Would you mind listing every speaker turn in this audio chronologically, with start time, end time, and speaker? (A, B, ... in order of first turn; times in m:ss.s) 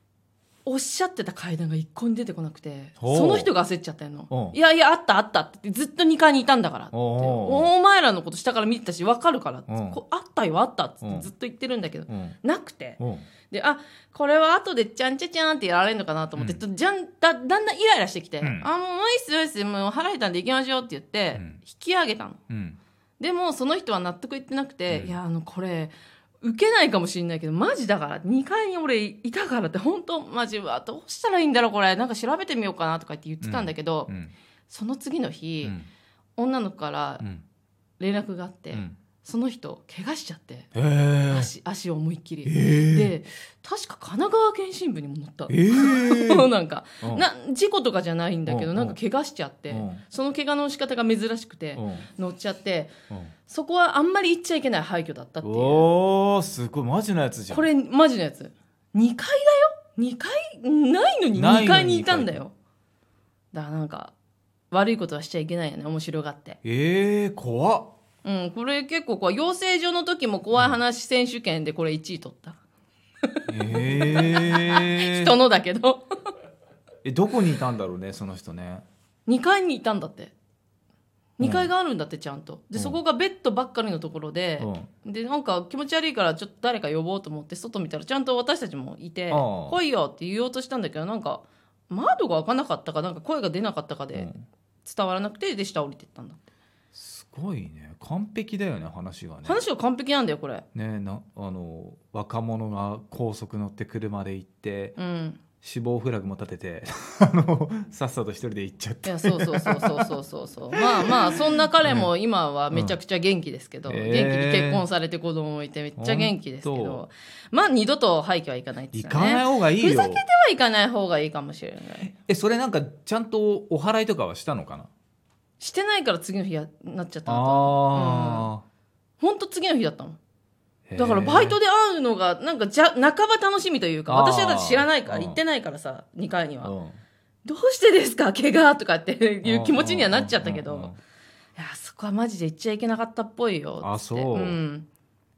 0:00.6-0:22.4 A
0:03.0-0:03.5 B
0:04.3-0:04.6 B
0:06.9-0:07.7 B
0:09.7-0:10.0 B
0:11.0-0:11.3 B
0:12.1-0:12.4 B
0:13.0-0:13.3 B
0:18.4-0:18.7 B
0:22.5-0:22.8 B
0:23.2-0:34.1 A
0:24.9-0:25.2 B
0:33.4-0:34.3 B
0:34.7-0:35.8 A
0:35.6-0:35.9 B
0:36.4-0:37.3 A
0:38.0-0:40.7 A
0:40.7-0:41.5 B
0:41.3-0:52.9 A
0:42.5-0:43.1 B
0:45.5-0:46.5 B
0:48.5-0:49.0 B
0:49.7-0:50.0 B
0:51.8-0:52.1 B
0:53.5-0:55.9 A
0:55.4-0:57.7 B
0:57.5-1:02.5 A
1:01.4-1:02.4 B
1:03.5-1:04.1 A
1:04.7-1:06.6 A
1:06.6-1:07.9 B
1:08.2-1:12.6 A
1:13.3-1:16.3 A
1:13.5-1:15.3 B
1:17.0-1:18.8 B
1:19.3-1:20.3 A
1:21.4-1:34.3 A
1:21.4-1:21.7 B
1:24.6-1:24.9 B
1:29.3-1:29.8 B
1:34.2-1:34.4 B
1:34.8-1:36.4 A
1:36.9-1:39.6 B
1:39.4-1:40.6 A
1:40.8-1:45.0 B
1:45.0-1:45.4 A
1:45.6-1:50.1 B
1:49.0-2:02.1 A
1:50.8-1:52.1 B
1:52.7-1:53.0 B
1:53.9-1:54.8 B
1:56.0-1:57.0 B
1:58.9-2:00.2 B
2:02.2-2:04.9 B
2:05.6-2:08.5 A
2:07.3-2:08.6 B
2:09.2-2:10.2 A
2:10.9-2:11.6 B
2:11.0-2:16.7 A
2:14.1-2:15.4 B
2:16.6-2:17.0 B
2:17.4-2:20.9 A
2:19.4-2:21.0 B
2:21.6-2:24.9 A
2:23.8-2:24.6 B